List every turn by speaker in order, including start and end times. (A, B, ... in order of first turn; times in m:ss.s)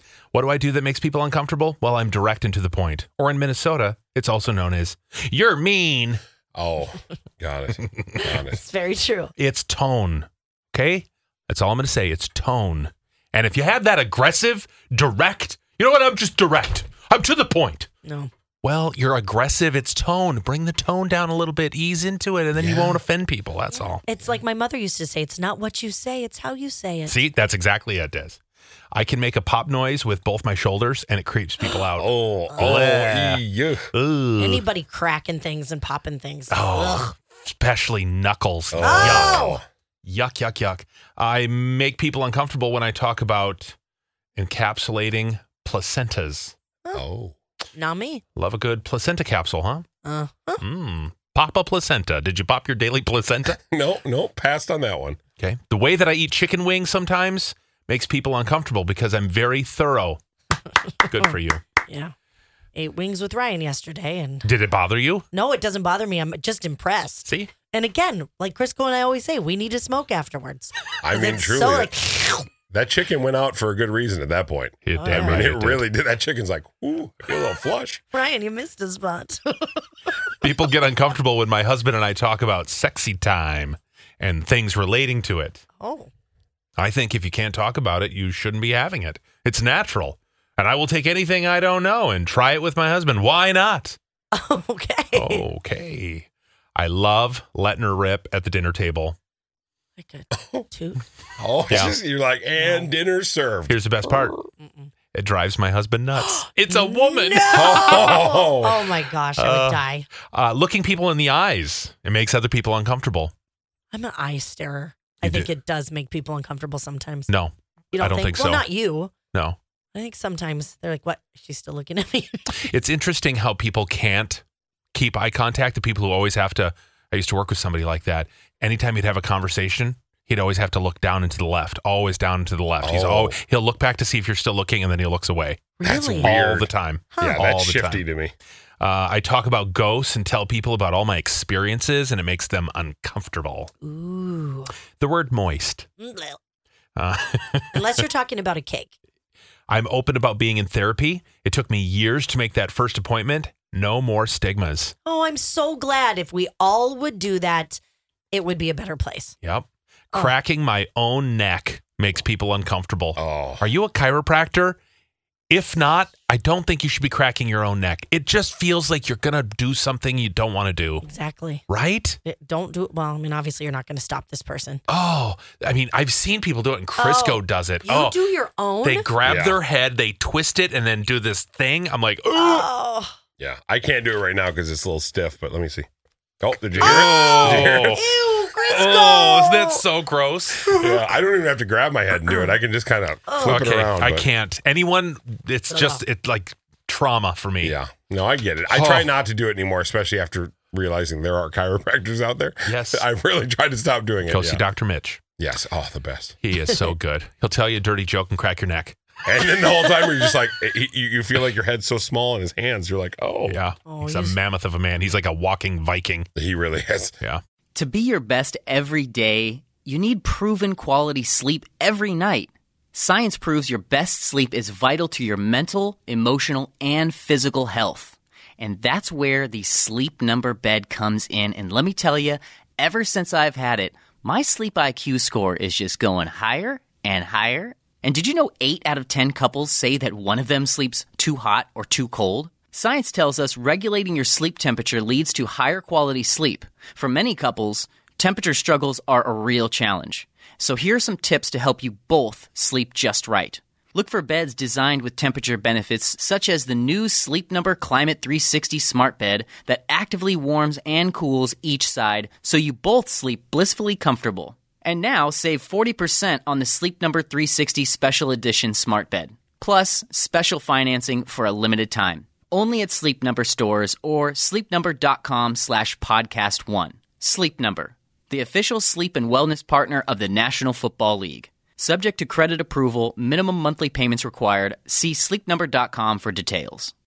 0:00.3-0:06.2 A
0:06.5-0:08.6 B
0:07.8-0:08.2 A
0:08.4-0:09.3 C
0:09.4-0:17.9 A
0:18.0-0:18.3 C
0:18.6-0:24.0 A
0:22.6-0:23.0 B
0:23.7-0:27.2 C
0:27.1-0:28.4 A
0:28.9-0:33.4 A
0:32.0-0:33.8 B
0:33.9-0:34.6 A
0:34.4-0:37.1 C
0:36.5-0:39.5 A
0:38.7-0:39.6 B
0:38.8-0:39.6 C
0:40.0-0:43.7 A
0:44.4-0:46.6 A
0:46.9-0:47.4 B
0:47.7-0:48.2 C
0:48.4-0:49.8 A
0:50.0-0:50.6 C
0:50.6-0:53.6 A
0:53.7-0:55.2 B
0:55.4-1:00.2 A
1:01.1-1:01.6 A
1:01.8-1:02.1 C
1:02.7-1:04.5 C
1:04.4-1:05.2 A
1:05.3-1:12.5 C
1:07.2-1:07.5 A
1:11.0-1:11.9 B
1:12.7-1:18.0 B
1:14.8-1:15.8 A
1:15.0-1:15.5 C
1:18.1-1:19.8 C
1:20.4-1:25.6 A
1:25.8-1:26.1 C
1:26.8-1:34.0 A
1:34.3-1:35.4 C
1:35.1-1:39.2 A
1:40.0-1:41.0 C
1:40.4-1:40.6 B
1:41.4-1:43.7 B
1:41.7-1:42.0 A
1:42.6-1:42.9 C
1:43.7-1:44.3 A
1:44.6-1:44.9 C
1:45.1-1:48.2 A
1:46.7-1:50.1 C
1:47.5-1:48.9 B
1:49.4-1:53.3 A
1:53.9-1:57.3 C
1:55.2-1:55.5 A
1:57.3-1:58.7 A
1:57.9-1:59.1 C
1:59.9-2:02.7 C
2:02.6-2:18.0 A
2:12.8-2:13.4 B
2:15.8-2:16.3 C
2:15.8-2:16.7 B
2:17.1-2:17.4 C
2:17.2-2:18.3 B
2:18.8-2:23.7 A
2:23.8-2:24.7 C
2:25.0-2:25.9 A
2:26.0-2:26.4 C
2:27.0-2:28.0 A
2:27.7-2:28.9 C
2:29.7-2:34.9 A
2:35.0-2:37.8 C
2:38.3-2:39.4 C
2:39.4-2:44.8 A
2:43.2-2:43.7 B
2:45.5-2:51.0 A
2:51.0-2:51.6 C
2:51.7-2:52.2 A
2:52.2-2:54.8 C
2:54.9-2:58.2 A
2:57.0-2:59.1 C
2:58.8-3:02.7 A
2:59.2-2:59.6 B
3:02.3-3:03.1 C
3:03.4-3:05.9 B
3:06.4-3:08.0 B
3:06.8-3:10.7 A
3:06.8-3:09.9 C
3:08.7-3:09.1 B
3:10.6-3:11.0 C
3:10.7-3:14.3 B
3:12.2-3:12.5 C
3:13.3-3:13.6 C
3:13.4-3:17.7 A
3:15.7-3:16.0 C
3:17.6-3:24.6 B
3:18.7-3:19.1 A
3:22.6-3:23.0 A
3:24.3-3:25.2 A
3:25.4-3:26.4 B
3:26.4-3:29.0 A
3:29.2-3:33.6 B
3:33.4-3:36.3 A
3:33.8-3:34.4 C
3:36.4-3:37.1 B
3:37.7-4:46.9 D